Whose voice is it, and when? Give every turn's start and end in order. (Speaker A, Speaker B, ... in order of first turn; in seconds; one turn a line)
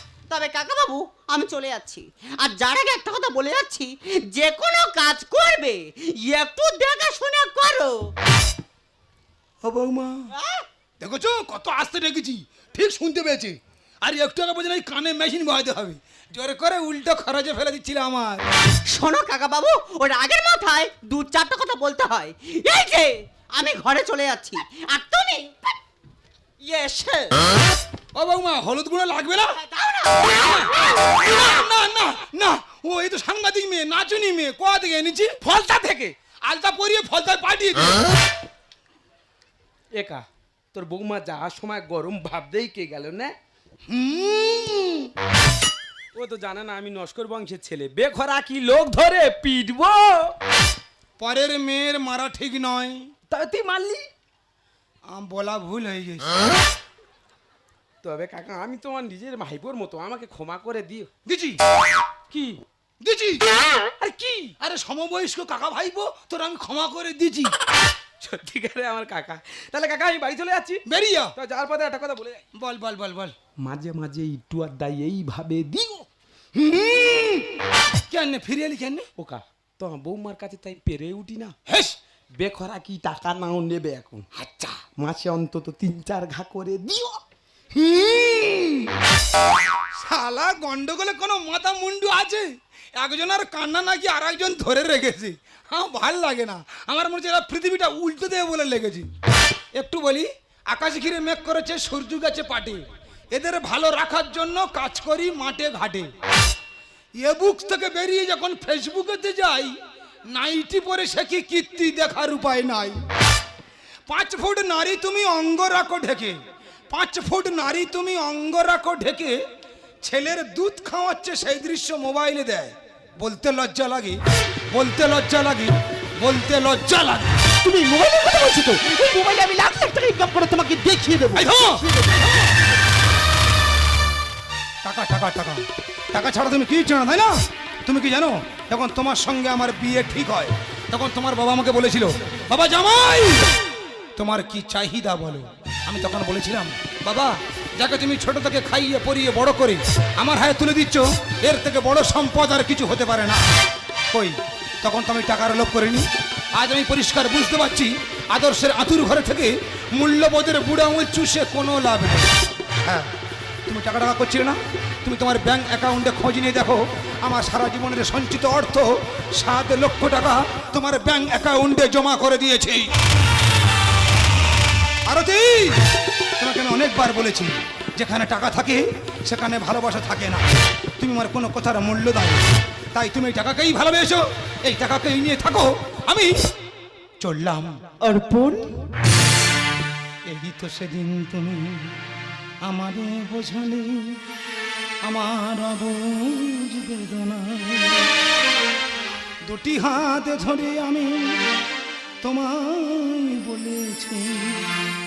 Speaker A: 0.3-8.1
Speaker B: 9.6-10.3
Speaker A: 10.3-10.6
Speaker B: 11.0-18.4
Speaker A: 18.9-25.7
Speaker A: 26.6-27.4
Speaker B: 28.1-29.6
Speaker A: 29.6-31.1
Speaker B: 30.4-35.3
Speaker C: 35.4-36.1
Speaker B: 36.5-38.0
Speaker C: 40.0-40.2
Speaker C: 40.7-43.3
Speaker B: 43.9-45.1
Speaker C: 46.1-50.3
Speaker B: 51.2-53.1
Speaker C: 53.3-54.0
Speaker B: 55.1-56.4
Speaker C: 58.0-61.1
Speaker B: 61.2-61.6
Speaker C: 62.3-62.6
Speaker B: 63.0-63.5
Speaker C: 64.0-64.5
Speaker B: 64.6-67.5
Speaker C: 68.2-70.8
Speaker B: 70.8-71.3
Speaker C: 71.3-72.4
Speaker B: 72.5-73.3
Speaker C: 73.6-76.1
Speaker B: 76.5-79.1
Speaker C: 79.2-81.5
Speaker B: 81.7-82.0
Speaker C: 82.4-84.2
Speaker B: 84.3-84.9
Speaker C: 84.9-87.2
Speaker B: 87.7-88.9
Speaker B: 89.9-99.1
Speaker B: 99.7-106.1
Speaker B: 107.2-109.8
Speaker B: 110.3-113.0
Speaker B: 114.1-116.3
Speaker B: 116.9-119.4
Speaker B: 120.0-127.4
Speaker D: 127.6-132.5
Speaker B: 131.3-131.8
Speaker B: 134.8-137.3
Speaker B: 137.8-143.5
Speaker B: 144.2-153.4
Speaker B: 154.1-162.3
Speaker B: 162.8-163.1
Speaker B: 163.7-172.9
Speaker B: 175.1-175.8
Speaker B: 176.4-180.4
Speaker B: 181.0-186.3
Speaker B: 187.2-187.8
Speaker D: 188.0-188.8
Speaker B: 190.3-191.9
Speaker B: 192.6-194.2
Speaker B: 195.0-198.1
Speaker B: 199.5-201.3
Speaker B: 202.2-204.7